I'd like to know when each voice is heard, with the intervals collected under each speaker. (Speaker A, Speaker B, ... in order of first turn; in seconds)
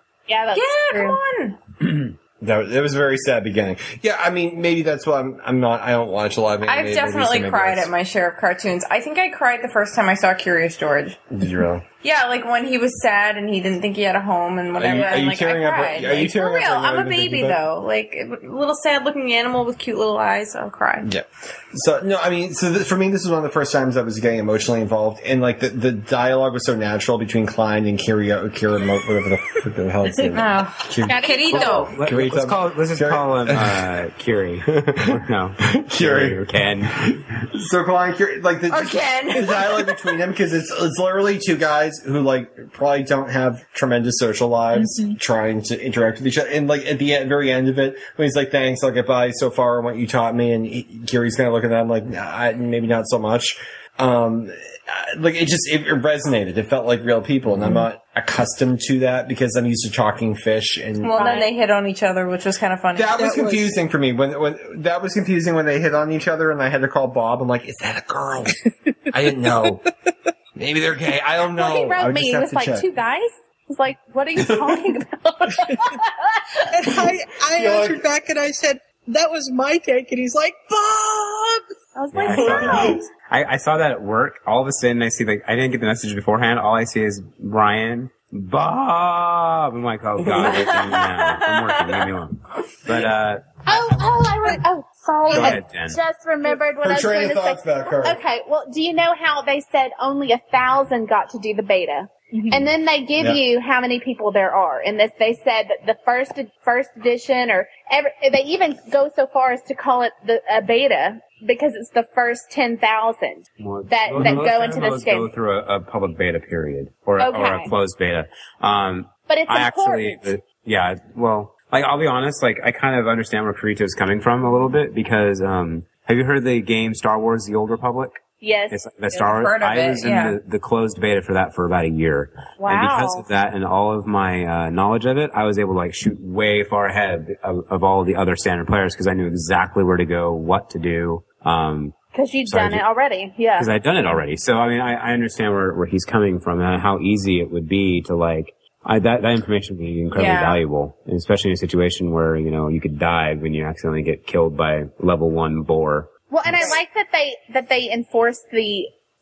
Speaker A: 0.3-1.2, 31.0-31.9, 61.2-61.5, 71.5-76.5, 82.0-83.1, 93.7-115.3, 117.2-117.7, 119.3-120.3, 128.4-128.8, 132.6-133.2, 142.1-143.7, 156.3-158.9
Speaker B: 0.5-1.6, 6.7-11.2, 12.0-21.1, 30.3-31.9, 38.7-40.0, 61.0-63.3, 90.4-92.1, 129.1-130.4, 150.1-150.6
Speaker C: 2.4-7.9, 11.3-11.8, 14.8-17.6, 21.0-33.9, 34.8-35.1, 35.8-36.4, 37.1-61.3, 63.0-69.8, 70.6-72.9, 74.4-74.8, 77.6-78.0, 82.3-83.1, 96.8-98.2
Speaker D: 31.5-37.1, 82.1-93.8, 95.3-96.0, 113.6-141.9, 142.5-142.8, 143.6-156.8
Speaker E: 44.7-45.2, 63.1-63.7, 69.1-69.7, 76.7-81.6, 102.3-102.7